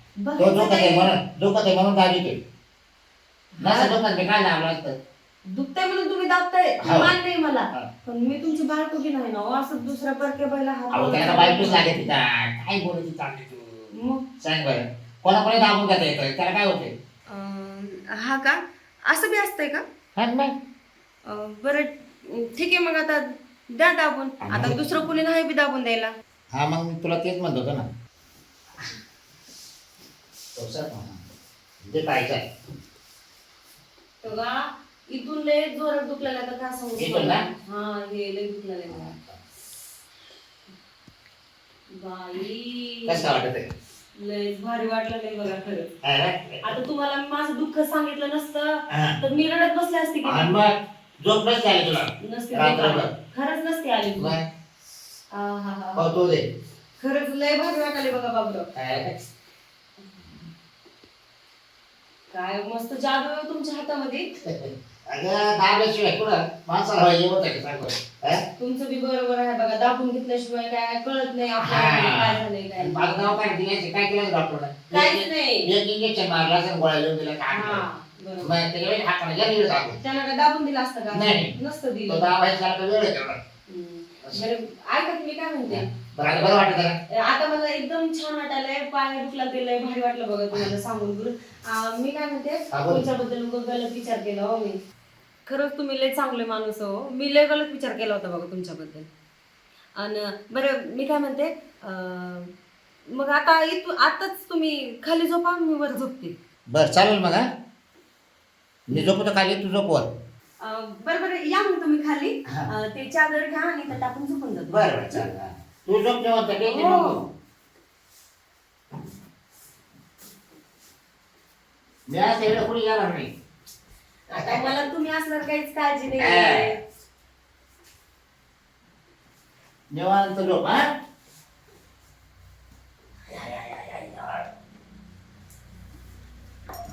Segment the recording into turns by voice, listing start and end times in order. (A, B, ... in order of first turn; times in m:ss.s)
0:00.2-0:01.1 A
0:00.4-0:02.4 B
0:03.5-0:03.9 A
0:03.6-0:05.0 B
0:05.5-0:12.0 A
0:06.8-0:07.1 B
0:10.9-0:16.9 B
0:13.9-0:14.2 A
0:17.3-0:19.8 A
0:20.2-0:20.5 B
0:21.3-0:26.1 A
0:24.5-0:24.8 B
0:26.5-0:27.9 B
0:30.5-0:31.2 B
0:31.8-0:32.5 B
0:34.2-0:39.1 A
0:37.0-0:37.4 B
0:38.9-0:39.4 B
0:41.9-0:43.3 A
0:43.1-0:43.7 B
0:44.2-0:45.9 A
0:46.0-0:46.6 B
0:46.6-0:50.5 A
0:48.9-0:49.2 B
0:50.2-0:53.1 B
0:52.2-0:54.4 A
0:54.2-0:54.4 B
0:55.3-0:56.1 A
0:56.0-0:56.4 B
0:57.0-0:58.7 A
0:58.7-0:59.3 B
1:02.3-1:04.3 A
1:04.4-1:08.4 B
1:08.6-1:13.4 A
1:11.6-1:17.8 B
1:14.9-1:15.7 A
1:17.5-1:18.5 A
1:18.4-1:20.0 B
1:20.0-1:22.2 A
1:21.1-1:21.5 B
1:22.1-1:23.4 B
1:23.7-1:25.9 A
1:25.7-1:27.0 B
1:27.1-1:34.8 A
1:32.7-1:33.0 B
1:35.4-1:39.1 A
1:40.0-1:42.5 A
1:43.1-1:46.4 A
1:46.7-1:47.5 B
1:48.9-1:50.1 B
1:50.6-1:55.2 A
1:54.7-1:57.2 B
1:56.6-1:57.2 A
2:02.1-2:03.3 B
2:04.3-2:06.8 A
2:04.3-2:04.7 B
2:06.2-2:06.7 B
2:09.9-2:10.9 B
2:13.3-2:14.5 B